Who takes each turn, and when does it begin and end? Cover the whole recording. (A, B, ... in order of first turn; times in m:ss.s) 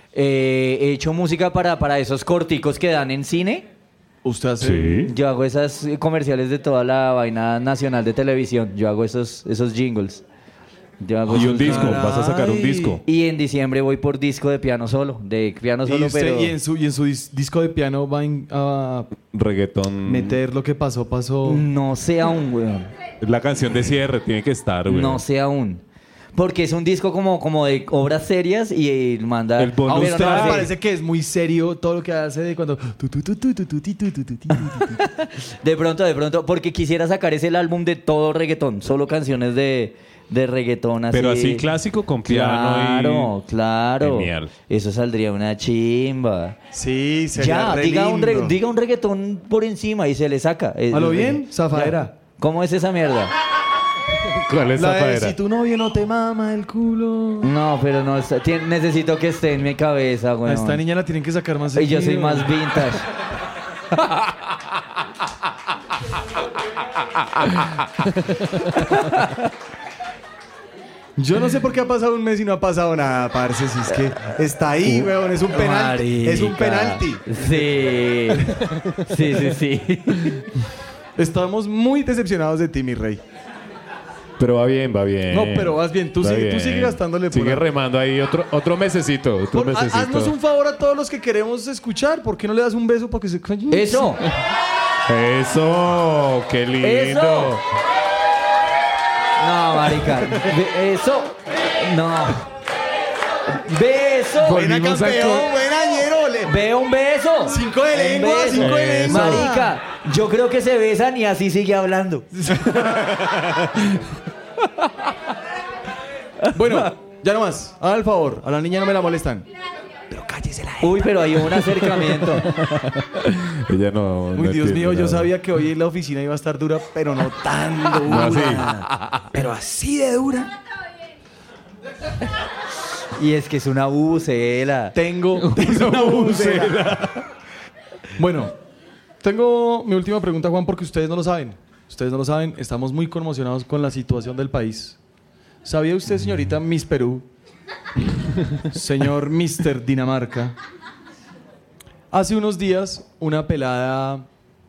0:00.1-0:03.7 A
0:04.2-0:05.1 B
0:04.6-0:05.1 C
0:05.0-0:10.2 A
0:11.0-0:12.1 A
0:11.3-0:13.0 B
0:11.3-0:13.0 C
0:13.0-0:16.5 A
0:15.8-0:19.1 B
0:19.3-0:20.4 C
0:20.0-0:21.6 B
0:21.4-0:22.9 A
0:23.2-0:25.2 C
0:24.9-0:25.8 A
0:26.3-0:30.7 A
0:29.6-0:30.7 C
0:29.9-0:35.0 B
0:34.8-0:41.6 A
0:41.1-0:43.3 C
0:42.2-0:46.6 A
0:44.0-0:44.5 C
0:46.7-0:48.6 B
0:47.4-0:53.3 A
0:50.9-0:52.1 B
0:54.3-0:55.3 C
0:54.7-0:57.5 B
0:57.4-1:00.8 A
1:00.4-1:02.6 B
1:01.8-1:03.1 A
1:08.8-1:09.4 A
1:11.2-1:17.8 B
1:14.9-1:20.4 A
1:18.4-1:18.6 B
1:21.2-1:23.2 B
1:24.4-1:30.3 C
1:25.3-1:27.6 B
1:29.5-1:34.2 B
1:33.7-1:34.2 A
1:35.0-1:37.6 C
1:36.8-1:37.6 A
1:39.4-1:42.4 A
1:43.5-1:44.8 A
1:44.4-1:46.5 B
1:44.6-1:45.3 C
1:46.4-1:52.3 A
1:47.4-1:49.7 B
1:48.6-1:49.5 C
1:52.3-1:53.3 B
1:56.5-1:59.5 B
2:00.1-2:01.1 B
2:00.8-2:02.5 A
2:02.6-2:05.3 C
2:04.3-2:10.5 B
2:08.0-2:08.7 C
2:13.2-2:15.0 A
2:14.9-2:17.1 B
2:15.4-2:17.2 C
2:18.2-2:18.5 B
2:19.2-2:25.0 B
2:25.6-2:27.2 B
2:28.7-2:30.6 B
2:32.1-2:34.3 B